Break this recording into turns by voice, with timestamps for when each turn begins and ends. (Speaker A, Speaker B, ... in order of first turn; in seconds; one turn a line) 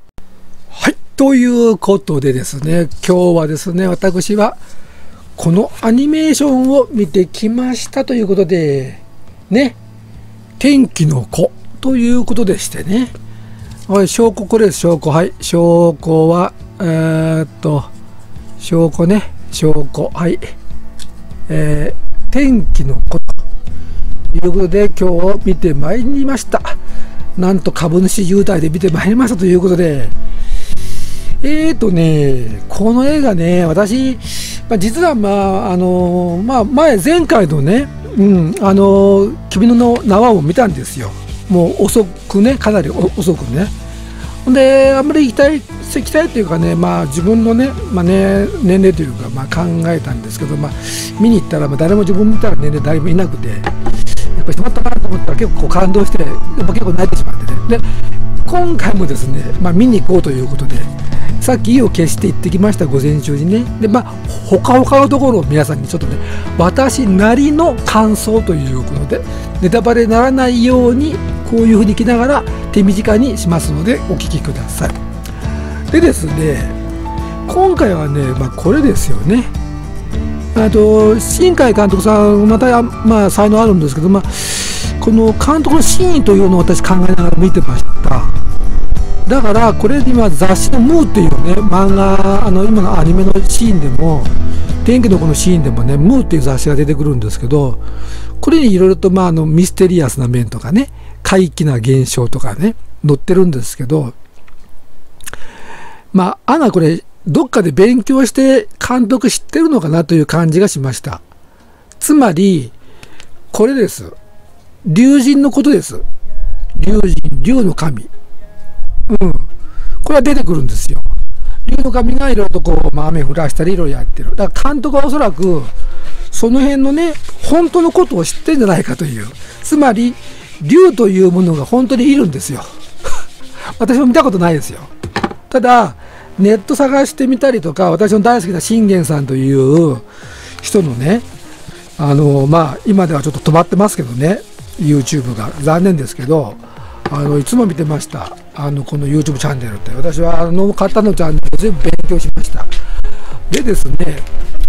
Speaker A: 0.7-4.6
Speaker A: 5.4-9.8
Speaker A: 10.6-13.1
Speaker A: 13.9-17.9
Speaker A: 18.6-20.5
Speaker A: 21.5-23.4
Speaker A: 24.3-26.8
Speaker A: 27.4-30.1
Speaker A: 31.4-43.7
Speaker A: 44.4-57.9
Speaker A: 58.4-75.0
Speaker A: 75.9-76.8
Speaker A: 77.5-79.5
Speaker A: 80.5-88.3
Speaker A: 89.2-94.3
Speaker A: 94.8-97.8
Speaker A: 98.4-104.1
Speaker A: 106.1-111.2
Speaker A: 112.0-112.7
Speaker A: 113.5-114.2
Speaker A: 114.8-116.0
Speaker A: 116.8-118.1
Speaker A: 119.1-119.5
Speaker A: 120.0-121.1
Speaker A: 121.7-125.7
Speaker A: 126.3-132.7
Speaker A: 133.8-134.9
Speaker A: 135.5-140.1
Speaker A: 140.6-141.2
Speaker A: 142.0-152.7
Speaker A: 153.5-154.2